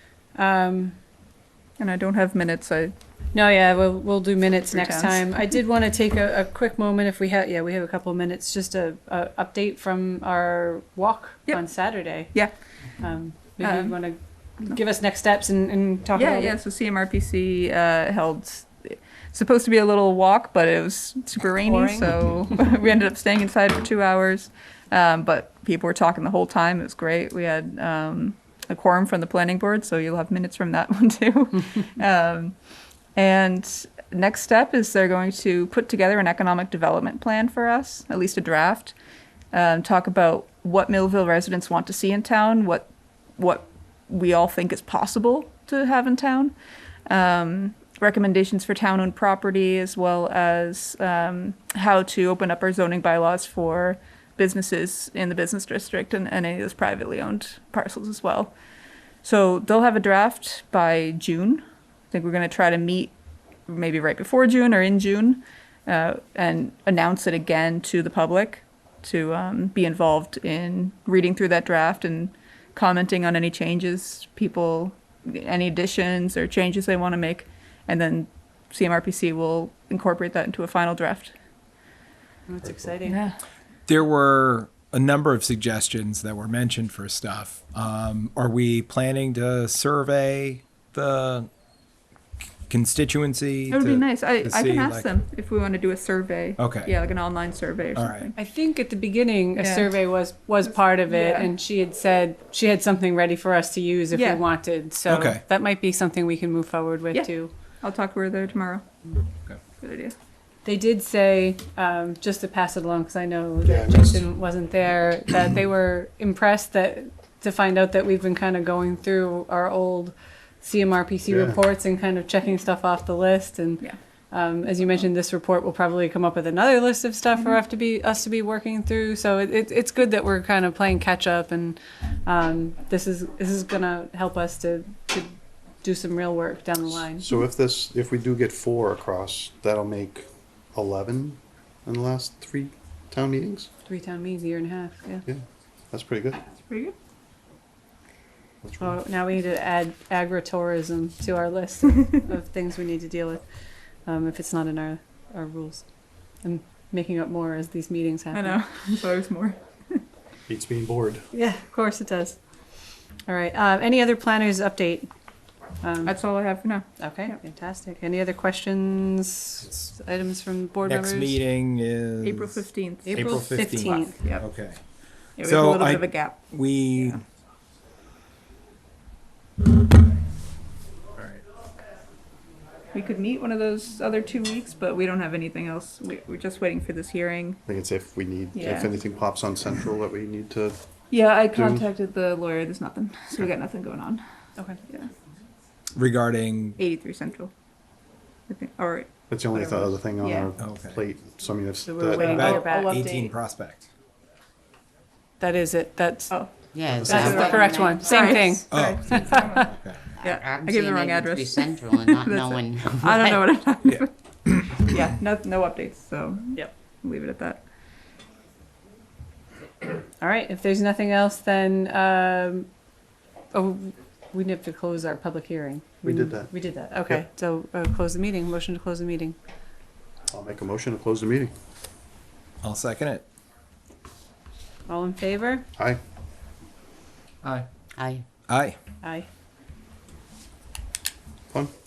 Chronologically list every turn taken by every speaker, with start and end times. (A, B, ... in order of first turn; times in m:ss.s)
0:00.3-0:01.0 A
0:01.8-0:02.9 B
0:03.3-0:12.3 A
0:04.7-0:05.2 B
0:13.0-0:16.6 A
0:13.6-0:14.0 B
0:16.1-0:32.5 B
0:21.6-0:22.4 A
0:33.2-0:38.9 B
0:39.5-0:46.5 B
0:47.1-0:58.5 B
0:59.2-1:03.1 B
1:03.7-1:21.3 B
1:22.5-1:23.2 A
1:23.0-1:23.4 B
1:23.9-1:31.5 C
1:32.7-1:35.1 C
1:33.7-1:38.3 B
1:36.6-1:36.9 C
1:37.9-1:38.3 C
1:38.3-1:47.5 A
1:39.6-1:39.9 B
1:41.0-1:41.5 B
1:44.1-1:44.4 B
1:45.1-1:45.4 C
1:47.1-1:48.9 B
1:49.8-1:50.1 B
1:50.6-2:17.4 A
1:53.6-1:54.2 D
2:01.3-2:01.6 D
2:17.2-2:23.7 D
2:23.9-2:25.2 A
2:25.3-2:26.4 D
2:26.7-2:26.9 B
2:28.6-2:29.0 D
2:28.8-2:33.4 A
2:34.0-2:35.8 A
2:36.4-2:38.6 A
2:38.3-2:40.0 B
2:40.5-2:41.2 D
2:41.3-2:42.4 A
2:43.3-2:45.1 A
2:45.8-2:46.1 A
2:46.0-2:47.4 B
2:47.0-2:51.4 A
2:50.8-2:52.6 C
2:52.2-2:54.4 B
2:53.0-2:54.2 A
2:53.1-2:54.8 C
2:55.4-2:56.4 B
2:55.4-2:57.2 C
3:01.2-3:01.4 C
3:02.9-3:07.6 B
3:07.7-3:10.8 D
3:08.5-3:08.9 B
3:11.1-3:14.2 B
3:11.5-3:11.8 D
3:16.0-3:16.8 C
3:16.8-3:17.5 B
3:18.5-3:20.5 B
3:19.3-3:22.5 D
3:20.6-3:21.0 C
3:21.8-3:23.0 A
3:22.2-3:23.9 C
3:22.2-3:23.3 B
3:25.4-3:26.4 A
3:26.3-3:34.1 B
3:26.7-3:28.3 E
3:26.9-3:27.4 D
3:27.1-3:29.7 A
3:28.7-3:30.1 C
3:30.1-3:33.4 E
3:34.5-3:34.8 C
3:34.8-3:37.6 B
3:40.2-3:42.7 A
3:43.5-3:49.4 A
3:46.0-3:46.5 D
3:50.3-3:51.5 D
3:52.6-3:53.2 C
3:54.9-3:55.6 A
3:58.0-3:58.3 E
3:58.5-3:58.8 C
3:59.0-3:59.3 A